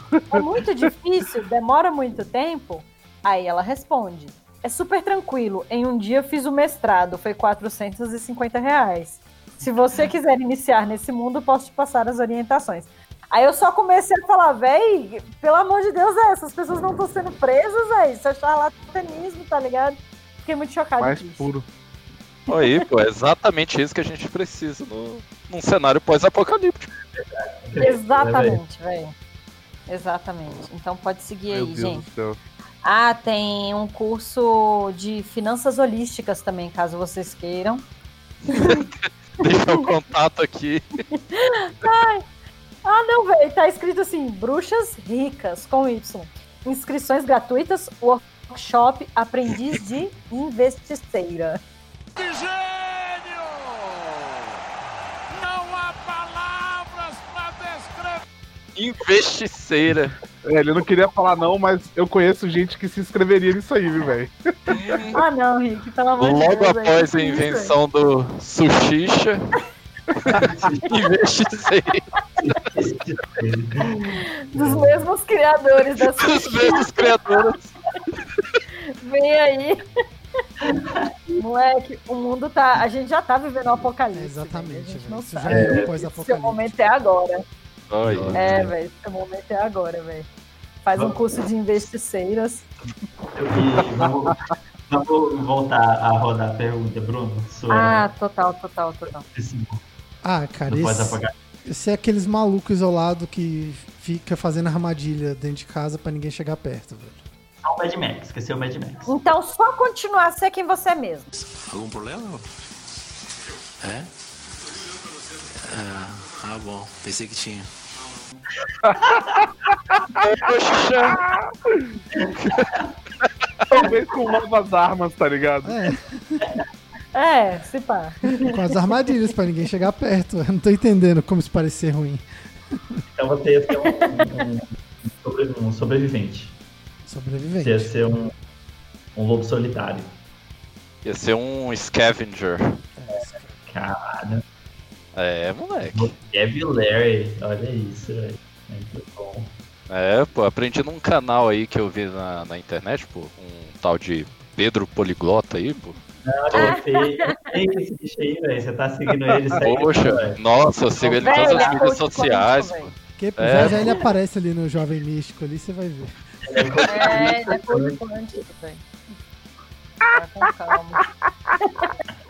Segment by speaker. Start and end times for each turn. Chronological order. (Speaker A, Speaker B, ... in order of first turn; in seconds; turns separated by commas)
Speaker A: 0.2-0.9, Speaker B: 0.3-21.5, Speaker A: 21.0-21.6, Speaker C: 22.5-26.9, Speaker D: 27.2-28.6, Speaker B: 27.8-29.1, Speaker B: 29.9-32.1, Speaker A: 31.5-32.4, Speaker B: 32.8-37.9, Speaker B: 38.5-38.9, Speaker C: 38.5-41.0, Speaker B: 39.4-39.9, Speaker B: 41.1-42.2, Speaker B: 42.9-51.6, Speaker E: 52.2-54.5, Speaker E: 55.3-58.2, Speaker C: 58.8-60.2, Speaker A: 60.5-64.3, Speaker C: 64.7-65.2, Speaker B: 65.1-67.7, Speaker C: 66.2-69.4, Speaker C: 70.3-72.0, Speaker D: 70.4-71.0, Speaker D: 72.4-75.1, Speaker B: 74.2-77.4, Speaker C: 76.2-77.7, Speaker B: 79.0-79.8, Speaker D: 80.6-81.1, Speaker B: 81.4-87.4, Speaker F: 84.1-86.7, Speaker D: 85.5-85.9, Speaker C: 87.9-88.7, Speaker D: 88.0-88.5, Speaker B: 88.3-90.3, Speaker B: 90.8-92.7, Speaker D: 90.9-91.2, Speaker D: 93.3-98.1, Speaker B: 97.7-99.2, Speaker D: 99.3-99.8, Speaker F: 100.2-107.2, Speaker D: 100.7-101.3, Speaker D: 107.6-109.1, Speaker B: 109.1-111.3, Speaker G: 111.3-112.6, Speaker G: 113.8-114.1, Speaker G: 115.6-117.7, Speaker A: 118.8-119.2, Speaker A: 119.7-120.0, Speaker C: 120.2-121.2, Speaker A: 121.0-121.9, Speaker D: 122.2-122.8, Speaker C: 122.4-122.7, Speaker A: 123.7-125.9, Speaker F: 125.7-126.5, Speaker B: 127.2-128.6, Speaker F: 128.3-132.2, Speaker D: 133.2-136.6, Speaker B: 133.9-134.5, Speaker F: 137.1-138.0, Speaker D: 137.6-138.3, Speaker D: 139.2-140.1, Speaker C: 141.0-142.7, Speaker F: 143.0-143.7, Speaker D: 143.1-144.4, Speaker C: 145.1-146.2, Speaker D: 145.8-149.6, Speaker C: 149.9-156.0, Speaker D: 156.2-160.4, Speaker B: 156.6-157.4, Speaker C: 159.6-163.9, Speaker D: 161.0-161.9, Speaker B: 161.2-162.9, Speaker F: 163.2-166.3, Speaker D: 166.4-168.0, Speaker C: 166.8-167.1, Speaker B: 166.9-168.9, Speaker B: 170.1-171.1, Speaker B: 171.6-171.9